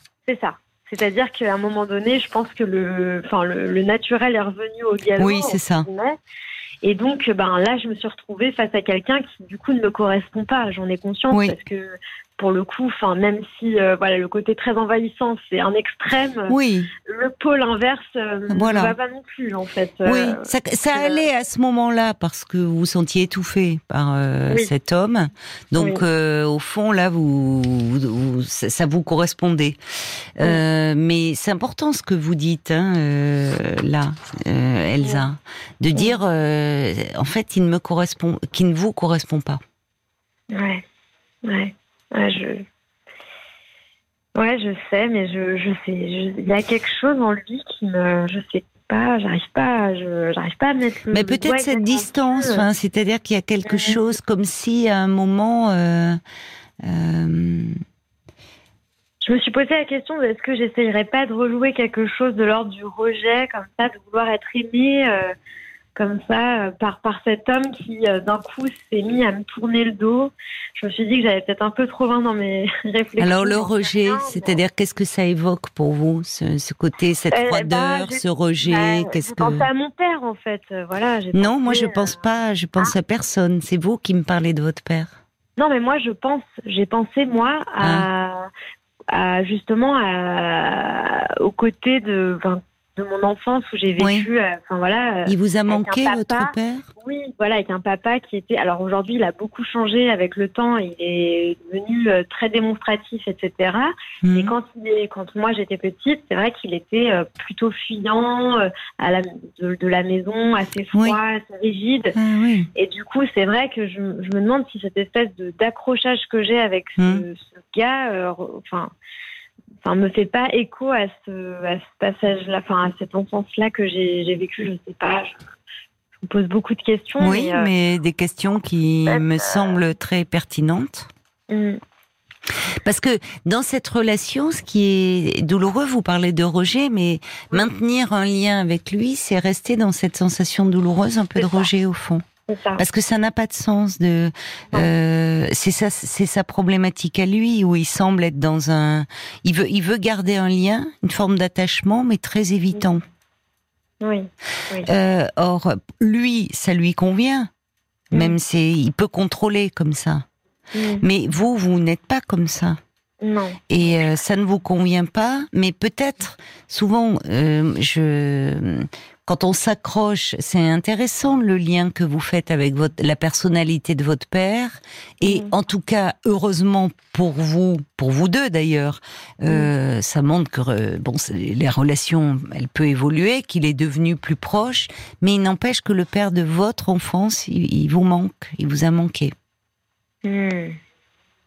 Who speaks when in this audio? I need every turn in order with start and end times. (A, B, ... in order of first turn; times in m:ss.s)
0:00.3-0:06.2 A
0:05.2-0:05.9 B
0:06.8-0:16.6 A
0:11.3-0:11.6 B
0:16.5-0:16.9 B
0:17.1-0:21.2 A
0:18.5-0:19.0 B
0:20.0-0:39.6 B
0:25.8-0:26.0 A
0:35.0-0:35.3 A
0:40.5-0:40.8 A
0:41.5-0:42.6 A
0:44.4-0:52.6 A
0:51.1-0:56.2 B
0:53.6-0:54.0 A
0:56.8-0:57.8 B
0:59.2-1:05.3 A
1:06.0-1:14.6 A
1:13.2-1:19.7 B
1:17.3-1:22.2 A
1:21.3-1:25.2 B
1:25.6-1:28.5 A
1:27.8-1:28.1 B
1:29.1-1:52.2 A
1:34.0-1:34.3 B
1:35.3-1:36.9 B
1:44.2-1:44.6 B
1:52.2-1:52.7 B
1:52.8-1:58.9 A
1:57.0-1:57.2 B
1:59.8-2:05.4 A
2:06.2-2:07.7 A
2:07.2-2:11.1 B
2:09.1-2:09.8 A
2:11.5-2:11.8 A
2:12.8-2:22.2 B
2:21.4-2:21.7 A
2:22.5-2:22.8 A
2:22.8-2:33.0 B
2:34.0-2:34.9 A
2:34.8-2:37.5 B
2:38.1-2:38.4 A
2:38.1-2:40.3 B
2:40.7-2:41.0 A
2:41.0-2:42.8 B
2:43.2-2:43.6 A
2:43.7-3:09.3 B
2:55.2-2:55.5 A
3:10.2-3:10.8 A